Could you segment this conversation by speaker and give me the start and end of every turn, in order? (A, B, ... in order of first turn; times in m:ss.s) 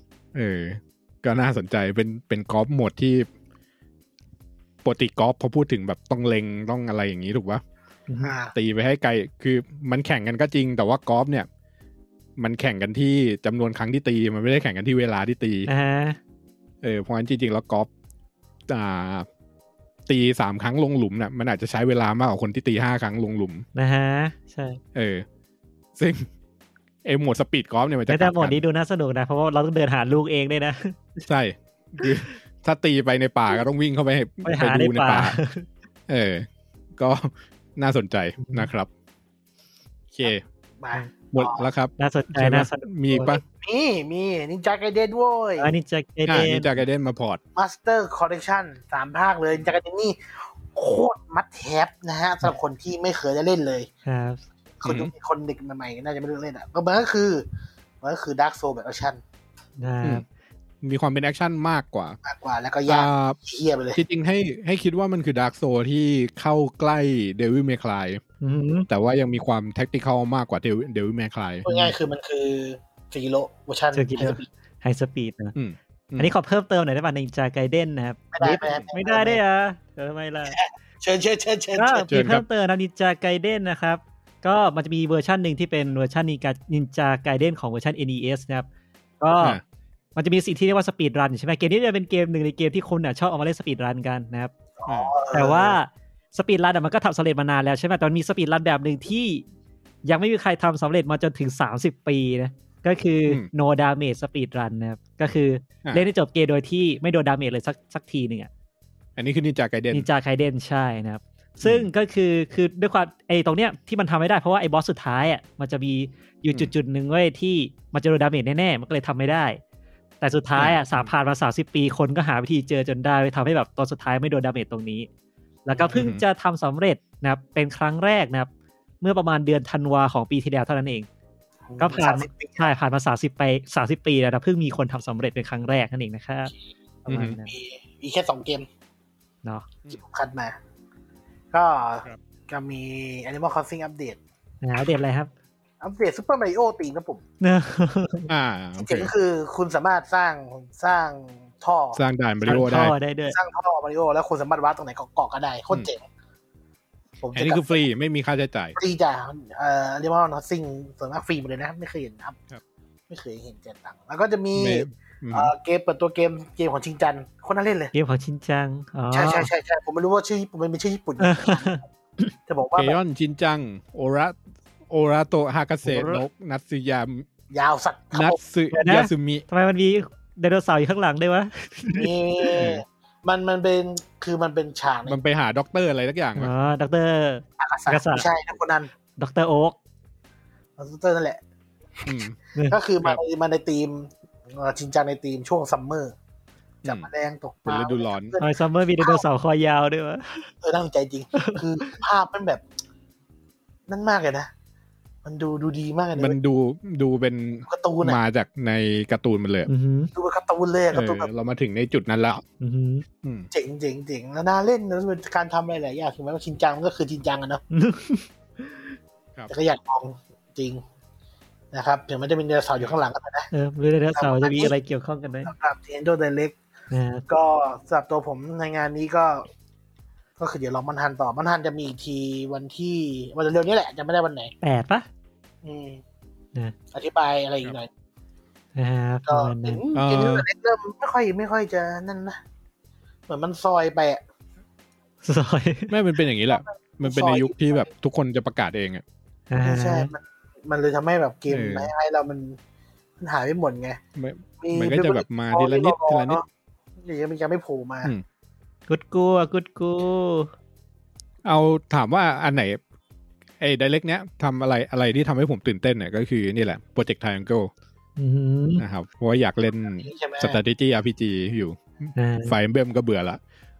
0:00.3-0:03.3 A
0:04.8-0:07.6 A
0:08.1-0:08.3 B
0:08.2-0:08.5 C
0:08.5-0:11.5 A
0:12.4-0:15.7 A
0:15.7-0:16.2 B
0:16.8-0:17.9 A
0:18.7-0:19.3 A
0:20.1-0:23.6 A
0:23.7-0:24.8 B
0:24.9-0:25.2 A
0:26.0-0:26.3 A
0:27.0-0:28.6 A
0:28.1-0:31.2 B
0:31.2-0:35.4 A
0:34.4-0:35.7 B
0:36.1-0:38.9 A
0:38.4-0:38.7 B
0:40.1-0:40.4 A
0:40.8-0:41.7 C
0:41.3-0:43.4 A
0:42.0-0:43.4 B
0:43.4-0:45.7 C
0:45.6-0:46.7 B
0:46.3-0:47.4 A
0:47.6-0:53.9 C
0:54.0-0:54.4 B
0:54.8-0:57.4 C
0:54.8-0:55.1 A
0:58.0-0:59.2 C
0:59.8-1:00.2 B
1:00.8-1:02.2 A
1:02.2-1:04.0 C
1:02.9-1:03.4 A
1:04.0-1:08.2 A
1:08.4-1:08.9 B
1:08.9-1:11.7 A
1:11.6-1:14.4 C
1:13.9-1:15.5 B
1:15.5-1:16.3 A
1:16.2-1:20.6 B
1:18.3-1:19.4 C
1:20.5-1:22.1 C
1:21.7-1:28.7 B
1:22.1-1:22.4 A
1:29.2-1:29.6 B
1:30.2-1:34.5 B
1:34.8-1:35.8 C
1:34.8-1:35.1 A
1:35.3-1:39.4 B
1:40.0-1:48.5 B
1:49.2-1:50.1 A
1:49.9-1:59.6 B
1:51.6-1:51.9 A
2:00.2-2:05.1 B
2:00.6-2:01.1 A
2:05.6-2:08.5 B
2:05.7-2:06.0 C
2:05.9-2:06.2 A
2:09.0-2:11.1 B
2:11.7-2:12.7 C
2:11.8-2:16.5 B
2:17.1-2:17.3 A
2:17.1-2:17.5 B
2:17.3-2:18.6 C
2:19.9-2:20.6 C
2:21.5-2:24.2 C
2:24.6-2:25.3 B
2:25.8-2:27.2 C
2:27.4-2:28.3 B
2:28.3-2:29.1 A
2:28.8-2:32.0 C
2:31.9-2:32.9 A
2:32.4-2:33.4 B
2:33.3-2:36.0 C
2:37.2-2:37.9 C
2:37.3-2:38.8 A
2:38.8-2:42.4 C
2:43.1-2:47.9 C
2:44.6-2:45.5 A
2:47.9-2:49.5 B
2:49.1-2:51.8 C
2:51.2-2:52.3 B
2:52.5-2:53.0 C
2:52.8-2:54.4 A
2:54.9-2:57.3 A
2:55.9-2:56.2 B
2:57.5-2:58.4 C
2:58.1-2:59.4 A
2:58.7-3:02.5 B
3:01.9-3:05.2 C
3:02.6-3:02.8 A
3:05.1-3:06.5 A
3:06.4-3:08.3 B
3:07.6-3:08.9 C
3:09.2-3:09.8 B
3:10.8-3:11.4 C
3:12.0-3:16.1 C
3:12.0-3:12.4 A
3:16.8-3:17.1 A
3:16.8-3:19.2 C
3:17.6-3:18.4 A
3:18.4-3:20.5 B
3:20.6-3:22.6 C
3:21.3-3:22.0 B
3:23.9-3:24.5 C
3:25.2-3:26.4 C
3:26.2-3:29.7 A
3:27.7-3:28.2 C
3:29.7-3:30.1 B
3:30.1-3:31.3 C
3:30.9-3:32.4 A
3:32.6-3:33.0 B
3:33.2-3:33.5 A
3:33.5-3:37.6 C
3:37.7-3:39.0 B
3:39.5-3:40.8 C
3:41.7-3:43.5 C
3:43.5-3:45.5 B
3:44.1-3:44.7 C
3:45.4-3:46.6 C
3:46.9-3:47.2 B
3:47.3-3:49.5 C
3:50.4-3:54.5 C
3:54.6-3:55.0 B
3:55.6-3:56.0 C
3:56.9-3:57.9 C
3:58.7-3:59.8 B
3:59.3-4:02.4 C
3:59.9-4:00.4 A
4:03.3-4:04.2 C
4:05.2-4:05.9 B
4:05.9-4:09.0 A
4:06.5-4:07.9 C
4:09.5-4:10.1 B
4:09.6-4:12.6 C
4:11.5-4:11.9 A
4:13.2-4:14.0 C
4:14.2-4:16.4 A
4:14.6-4:16.4 C
4:17.0-4:18.1 C
4:18.9-4:20.5 B
4:21.4-4:22.8 A
4:23.6-4:27.7 A
4:28.2-4:28.8 B
4:28.8-4:33.4 A
4:29.8-4:30.6 C
4:32.2-4:32.6 B